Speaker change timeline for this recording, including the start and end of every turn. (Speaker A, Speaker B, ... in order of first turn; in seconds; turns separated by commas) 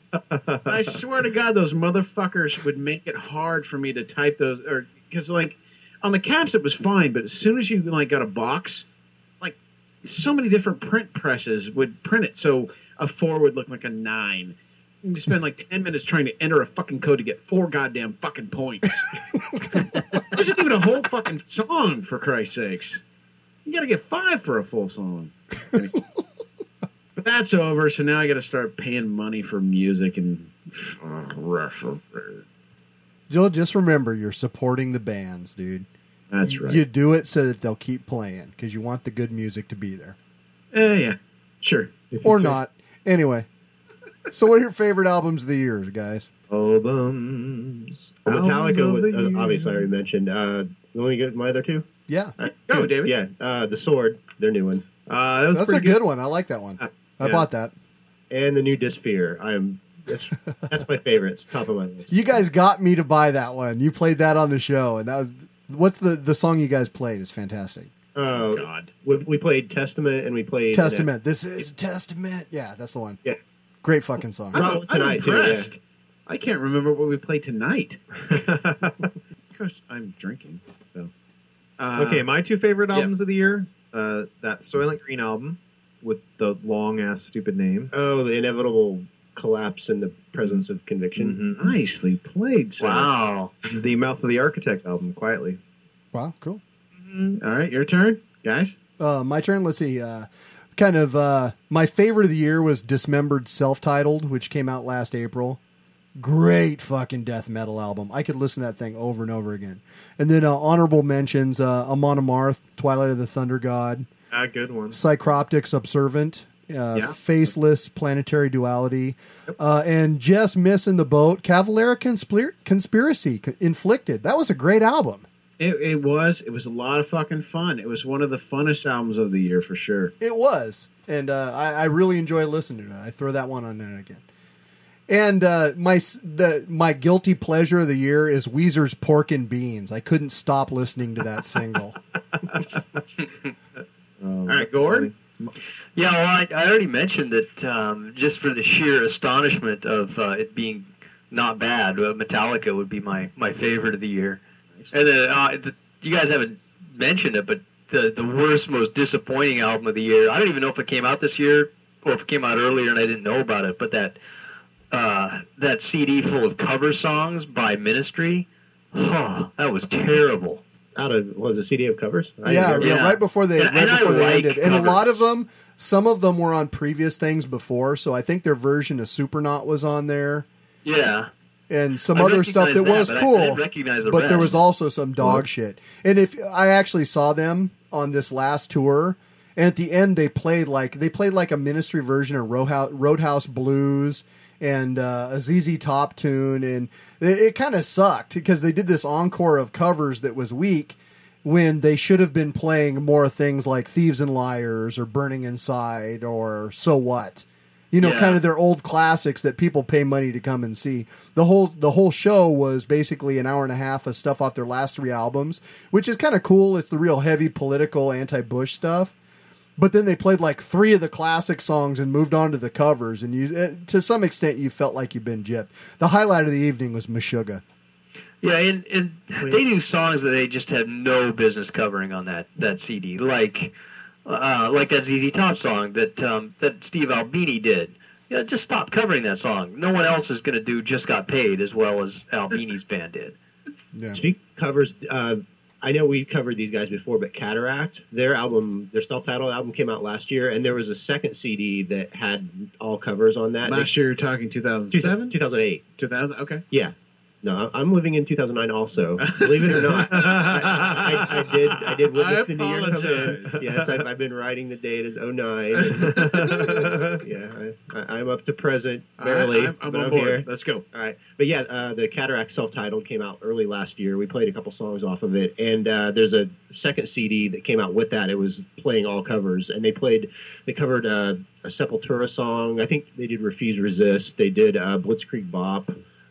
Speaker A: 0.3-0.8, Speaker B: 0.7-8.9, Speaker B: 9.4-19.1, Speaker B: 20.3-23.0, Speaker B: 23.7-26.0, Speaker B: 27.2-32.4, Speaker C: 33.3-35.9, Speaker B: 36.3-36.8, Speaker C: 36.5-40.2, Speaker B: 40.7-41.9, Speaker A: 42.1-42.6, Speaker C: 42.2-43.5, Speaker C: 44.3-46.3, Speaker A: 46.5-49.9, Speaker D: 48.2-51.9, Speaker C: 52.1-52.3, Speaker D: 52.4-54.9, Speaker B: 52.7-53.2, Speaker A: 55.1-56.0, Speaker C: 55.5-57.7, Speaker A: 56.8-57.5, Speaker D: 58.3-62.1, Speaker C: 62.1-67.9, Speaker D: 68.2-71.1, Speaker B: 68.3-68.9, Speaker C: 70.7-73.2, Speaker C: 73.8-74.6, Speaker D: 74.5-75.7, Speaker B: 74.5-78.0, Speaker A: 78.3-79.1, Speaker B: 79.5-81.1, Speaker B: 81.8-82.3, Speaker A: 82.0-87.9, Speaker D: 87.9-91.4, Speaker A: 91.2-91.8, Speaker B: 91.6-93.1, Speaker E: 92.8-93.5, Speaker A: 93.7-95.6, Speaker C: 96.1-96.6, Speaker A: 97.0-97.4, Speaker B: 97.4-98.8, Speaker C: 99.0-105.6, Speaker C: 106.2-114.1, Speaker A: 114.3-115.0, Speaker C: 114.9-125.3, Speaker B: 125.6-130.1, Speaker C: 130.2-134.2, Speaker C: 135.1-141.9, Speaker A: 144.2-145.5, Speaker B: 144.5-145.1, Speaker E: 146.0-164.2, Speaker B: 154.8-155.1, Speaker E: 164.9-170.6, Speaker D: 171.0-173.0, Speaker C: 172.4-180.5, Speaker E: 172.8-175.2, Speaker E: 180.8-181.3, Speaker C: 181.7-219.1, Speaker E: 182.1-184.6, Speaker E: 208.0-208.4, Speaker C: 219.8-227.6, Speaker E: 228.4-233.7, Speaker E: 234.2-243.4, Speaker C: 243.9-244.2, Speaker D: 244.1-253.9, Speaker B: 253.6-255.4, Speaker D: 254.9-255.8, Speaker B: 256.0-256.6, Speaker D: 256.7-285.9, Speaker B: 259.2-263.6, Speaker A: 263.4-263.9, Speaker B: 265.8-266.7, Speaker A: 266.0-267.2, Speaker B: 269.2-270.8